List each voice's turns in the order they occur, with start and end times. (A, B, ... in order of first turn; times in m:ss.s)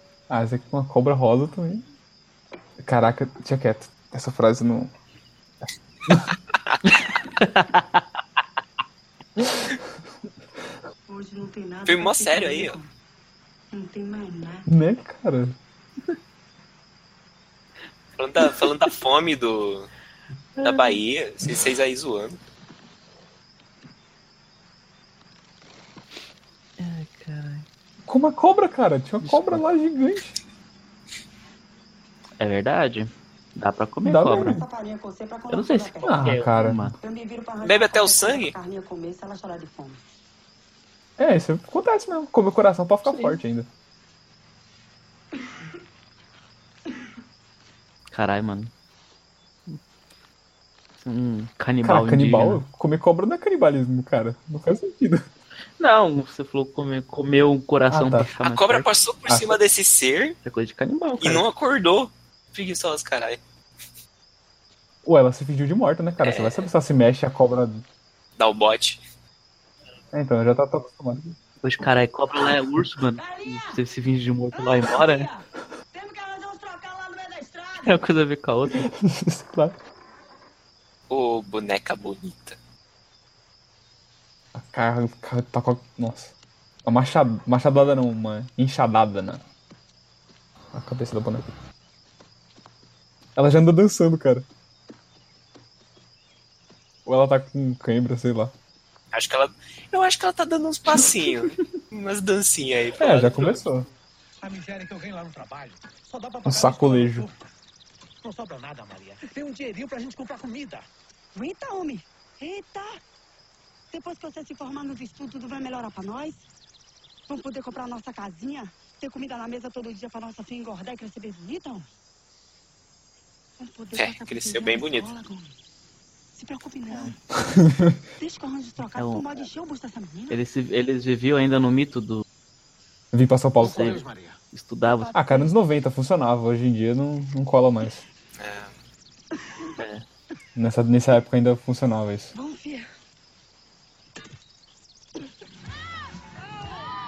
0:00.3-0:01.8 A
0:02.8-0:04.9 A
0:07.4-0:08.0 B
0:11.1-0:12.9 C
0:11.8-0:12.8 D
0:13.7-0:14.6 C
0:14.7-0:15.6 A
0:18.2-0:19.9 D
0:20.6-0:21.0 B
0:20.6-0:22.4 D
0:26.8-0:27.6 B
0:28.0-0:30.4 A
0:29.2-0:29.6 B
0:32.4-0:34.6 B
0:34.0-0:34.6 A
0:34.4-0:40.0 C
0:35.5-0:36.9 B
0:36.0-0:36.9 A
0:37.6-0:38.5 D
0:41.2-0:43.7 A
0:43.0-0:43.4 B
0:48.1-0:48.7 B
0:51.0-0:52.6 B
0:51.8-0:55.3 A
0:55.8-0:58.9 B
0:57.9-0:58.3 A
0:58.4-1:00.4 D
0:59.3-0:59.6 A
1:00.4-1:01.4 B
1:01.2-1:03.4 D
1:05.0-1:07.8 A
1:06.2-1:06.7 D
1:08.4-1:09.0 D
1:10.1-1:11.4 A
1:11.6-1:15.3 B
1:14.5-1:15.4 C
1:15.9-1:18.0 C
1:17.8-1:18.9 B
1:18.7-1:19.8 A
1:21.1-1:22.6 D
1:24.5-1:29.4 A
1:30.7-1:31.5 A
1:33.4-1:34.4 A
1:37.0-1:38.5 A
1:39.1-1:43.6 D
1:43.0-1:43.9 A
1:44.4-1:47.4 E
1:46.4-1:47.3 A
1:48.2-1:50.8 E
1:51.3-1:53.0 C
1:53.9-1:56.4 C
1:57.3-2:01.8 C
2:03.6-2:05.5 C
2:03.9-2:05.1 D
2:06.3-2:07.2 C
2:07.5-2:08.0 A
2:08.2-2:10.4 C
2:09.0-2:09.2 B
2:10.3-2:12.2 B
2:13.1-2:14.0 A
2:13.6-2:15.1 B
2:13.6-2:14.4 E
2:14.8-2:15.5 C
2:15.1-2:18.0 A
2:18.4-2:18.7 D
2:19.8-2:20.0 B
2:20.6-2:22.3 A
2:22.3-2:22.9 C